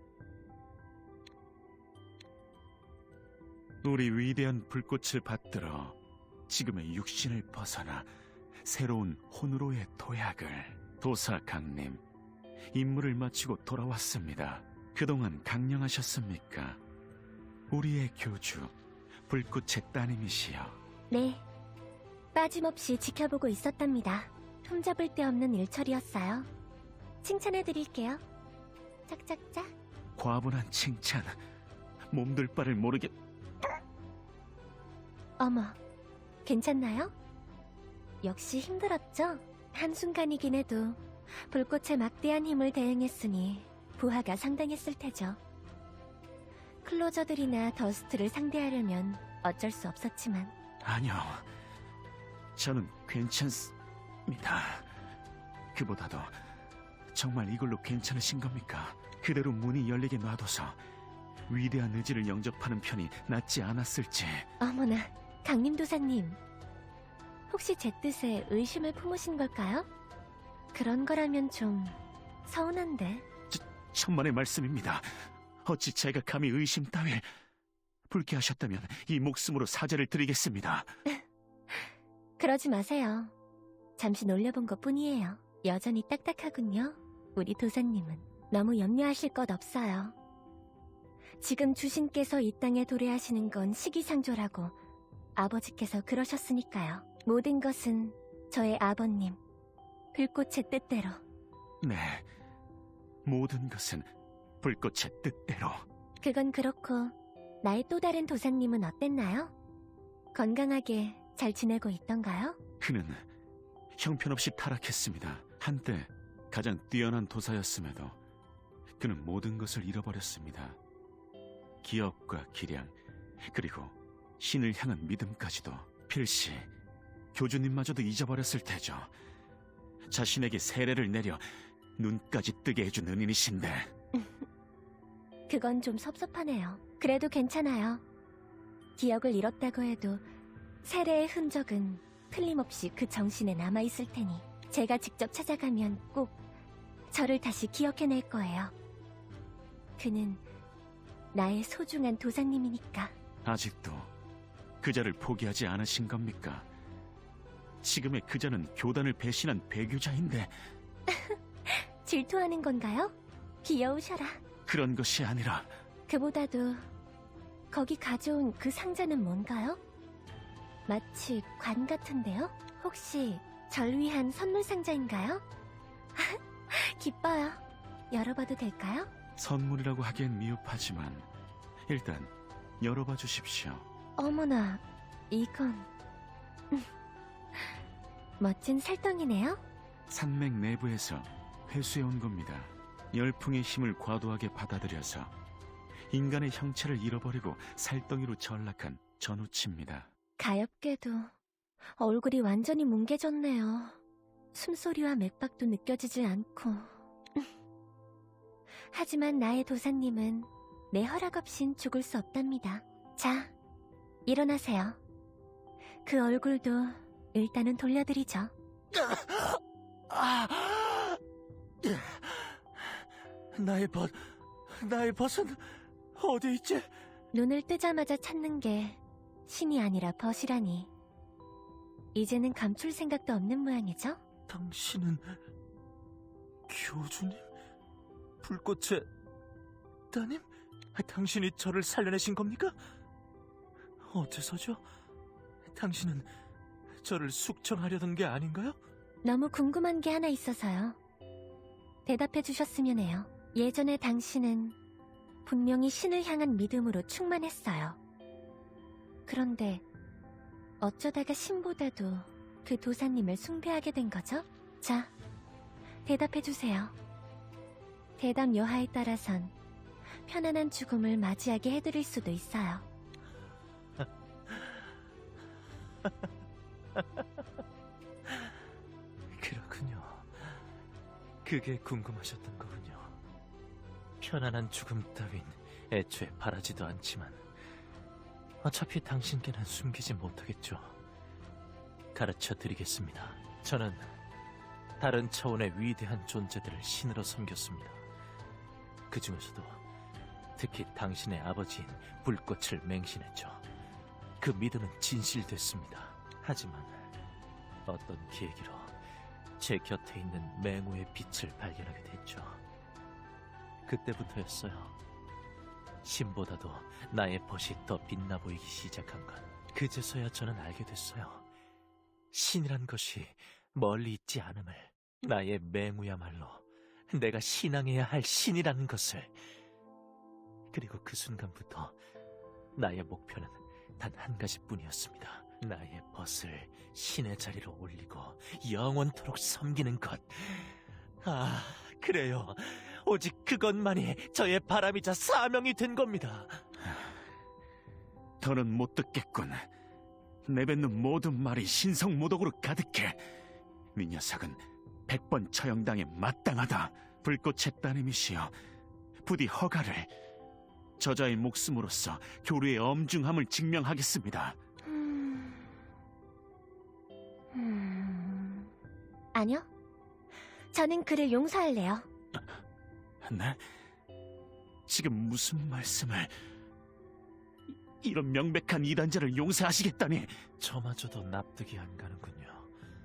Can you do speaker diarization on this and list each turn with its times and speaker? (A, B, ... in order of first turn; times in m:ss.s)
0:03.8-0:06.0 A
0:06.5-0:08.1 A
0:08.6-0:12.0 A
0:12.7-0:16.8 A
0:17.7-0:18.8 A
0:19.3-0:20.8 A
0:21.1-0:21.4 B
0:22.3-0:26.5 B
0:27.2-0:28.2 B
0:29.1-0:29.7 B
0:30.2-0:31.4 A
0:32.1-0:33.2 A
0:35.4-0:35.8 B
0:36.4-0:37.1 B
0:38.2-0:45.4 B
0:46.8-0:50.5 B
0:50.8-0:51.5 A
0:52.6-0:53.7 A
0:54.3-0:54.9 A
0:55.7-0:56.4 A
0:57.1-1:00.8 A
1:01.5-1:04.5 A
1:04.6-1:06.4 B
1:07.5-1:09.9 B
1:10.7-1:13.3 B
1:13.5-1:17.3 A
1:18.1-1:20.9 A
1:21.1-1:21.9 B
1:22.4-1:23.3 B
1:24.0-1:30.2 B
1:31.4-1:34.8 B
1:35.4-1:39.4 B
1:40.1-1:41.2 B
1:41.8-1:42.3 A
1:43.2-1:44.1 A
1:44.6-1:45.8 A
1:46.2-1:49.5 B
1:50.3-1:52.6 B
1:52.8-1:53.3 A
1:54.0-1:58.2 A
1:59.0-2:00.8 A
2:01.8-2:02.9 A
2:03.5-2:06.7 A
2:07.3-2:09.1 A
2:10.1-2:13.9 A
2:15.5-2:18.0 B
2:19.0-2:20.2 B
2:20.8-2:26.4 B
2:27.1-2:28.7 B
2:30.0-2:30.4 B
2:31.3-2:33.2 B
2:33.4-2:34.1 A
2:34.8-2:36.7 A
2:37.8-2:40.5 A
2:41.1-2:44.4 B
2:44.7-2:45.7 A
2:46.1-2:46.9 B
2:47.7-2:49.8 B
2:50.9-2:55.4 B
2:56.2-2:59.1 B
2:59.4-3:01.3 A
3:01.9-3:03.9 A
3:04.2-3:05.9 B
3:08.4-3:09.6 B
3:10.1-3:15.3 A
3:16.1-3:20.1 A
3:20.4-3:21.3 B
3:22.0-3:24.0 B
3:24.5-3:27.5 B
3:28.9-3:33.5 B
3:34.3-3:35.0 B
3:36.0-3:38.5 B
3:38.9-3:41.2 C
3:41.8-3:42.6 C
3:43.5-3:45.6 C
3:46.2-3:46.9 C
3:47.3-3:50.9 B
3:52.1-3:54.2 B
3:54.5-3:55.4 C
3:56.7-3:57.5 C
3:58.4-3:59.1 C
4:00.1-4:02.8 C
4:04.0-4:04.8 C
4:05.7-4:06.3 C
4:07.0-4:08.8 C
4:09.2-4:11.0 B
4:12.0-4:14.8 B
4:15.4-4:18.0 B
4:19.3-4:19.8 B
4:20.8-4:25.1 B
4:26.0-4:27.0 B
4:28.2-4:29.5 B
4:30.2-4:32.9 B
4:34.0-4:34.7 C
4:37.0-4:37.2 C
4:39.3-4:40.6 C
4:41.4-4:43.2 C
4:44.2-4:47.4 C
4:48.6-4:51.0 C
4:52.2-4:54.1 C
4:55.0-4:58.0 C
4:59.1-4:59.8 C
5:00.6-5:03.6 C
5:04.4-5:07.1 C
5:07.9-5:08.9 C
5:09.6-5:12.6 C
5:13.8-5:14.9 C
5:16.0-5:21.4 C
5:22.3-5:29.3 C
5:30.7-5:32.0 C
5:32.8-5:46.6 C
5:48.4-5:49.7 A
5:50.5-5:53.2 A
5:54.0-5:58.5 A
5:59.2-6:00.1 A
6:01.0-6:04.6 A
6:04.8-6:05.8 B
6:07.5-6:08.7 B
6:09.3-6:09.7 B
6:10.7-6:12.1 B
6:13.2-6:13.6 A
6:14.9-6:16.3 A
6:17.7-6:20.4 A
6:20.6-6:22.7 C